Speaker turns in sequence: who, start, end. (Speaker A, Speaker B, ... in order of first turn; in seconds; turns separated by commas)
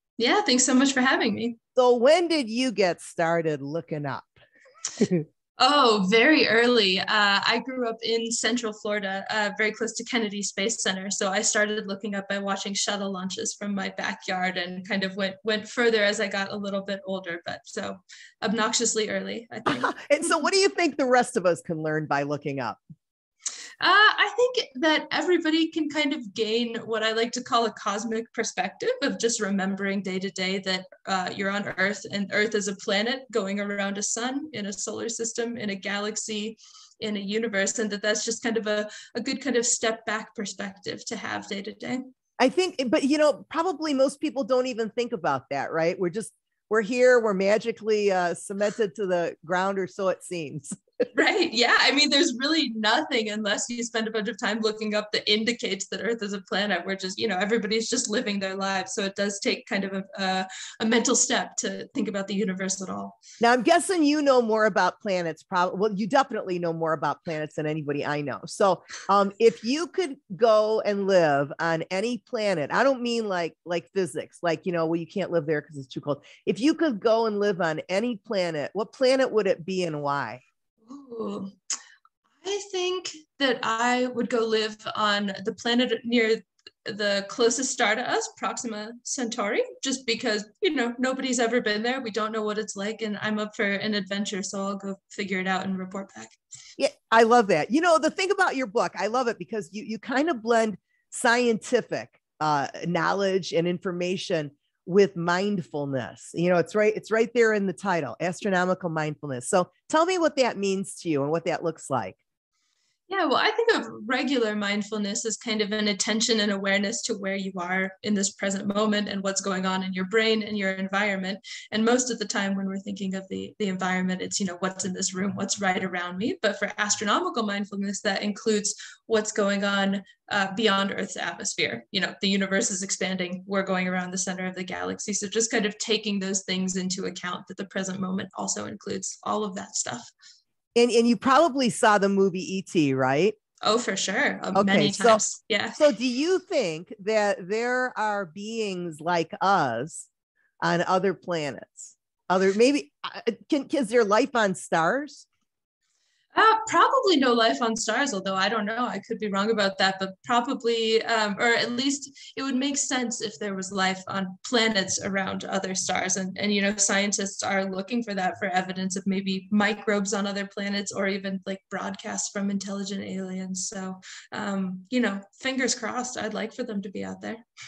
Speaker A: 0.2-1.6, Speaker B: 1.8-4.4, Speaker B: 5.0-5.2, Speaker A: 5.6-20.3, Speaker B: 19.7-22.8, Speaker A: 23.8-42.0, Speaker B: 42.4-50.8, Speaker A: 51.1-63.2, Speaker B: 63.4-80.4, Speaker A: 80.8-81.5, Speaker A: 82.4-96.3, Speaker B: 96.8-112.2, Speaker A: 113.1-140.1, Speaker B: 140.8-143.3, Speaker A: 143.6-145.8, Speaker B: 144.5-145.2, Speaker B: 145.8-150.1, Speaker B: 150.6-155.2, Speaker A: 156.3-177.4